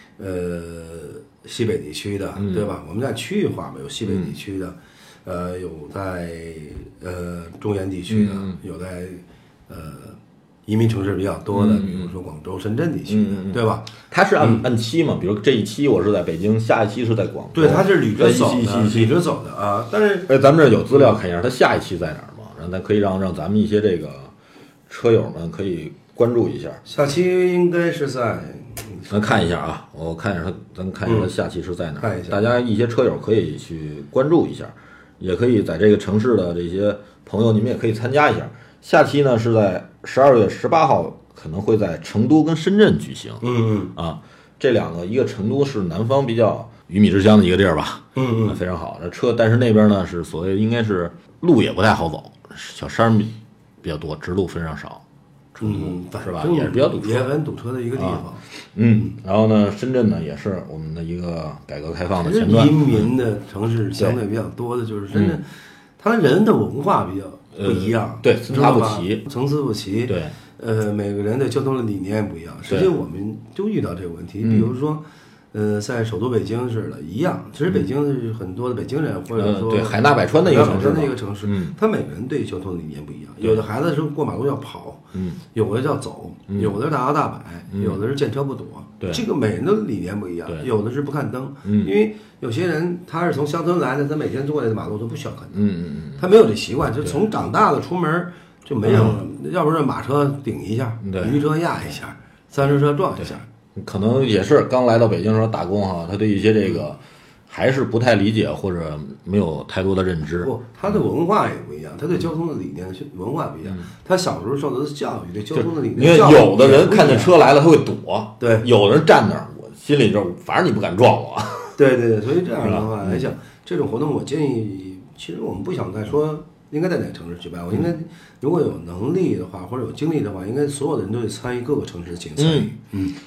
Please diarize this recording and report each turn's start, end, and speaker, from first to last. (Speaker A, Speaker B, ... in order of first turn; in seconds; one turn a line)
Speaker A: 0.2-14.7
Speaker B: 2.4-2.7
Speaker B: 4.0-4.3
Speaker B: 8.1-8.6
Speaker B: 11.5-12.1
Speaker B: 13.1-19.2
Speaker A: 17.5-20.3
Speaker B: 20.3-24.3
Speaker B: 24.9-26.8
Speaker A: 26.8-29.2
Speaker B: 29.1-55.0
Speaker A: 31.0-31.3
Speaker A: 32.0-32.4
Speaker A: 43.4-43.9
Speaker A: 48.1-48.6
Speaker B: 55.5-57.3
Speaker A: 55.6-58.4
Speaker B: 58.0-63.0
Speaker A: 62.1-95.6
Speaker B: 65.1-65.4
Speaker B: 67.5-69.2
Speaker B: 70.0-70.3
Speaker B: 72.7-72.9
Speaker B: 74.4-74.7
Speaker B: 79.3-81.7
Speaker B: 85.1-85.4
Speaker B: 86.5-86.7
Speaker B: 87.7-88.0
Speaker B: 89.0-89.2
Speaker B: 91.6-91.9
Speaker B: 95.5-96.2
Speaker A: 96.2-103.5
Speaker B: 98.8-99.2
Speaker B: 101.0-101.4
Speaker B: 103.2-110.5
Speaker A: 110.4-117.4
Speaker B: 115.5-121.8
Speaker A: 118.4-118.7
Speaker A: 121.8-133.1
Speaker B: 122.6-123.3
Speaker B: 132.4-132.7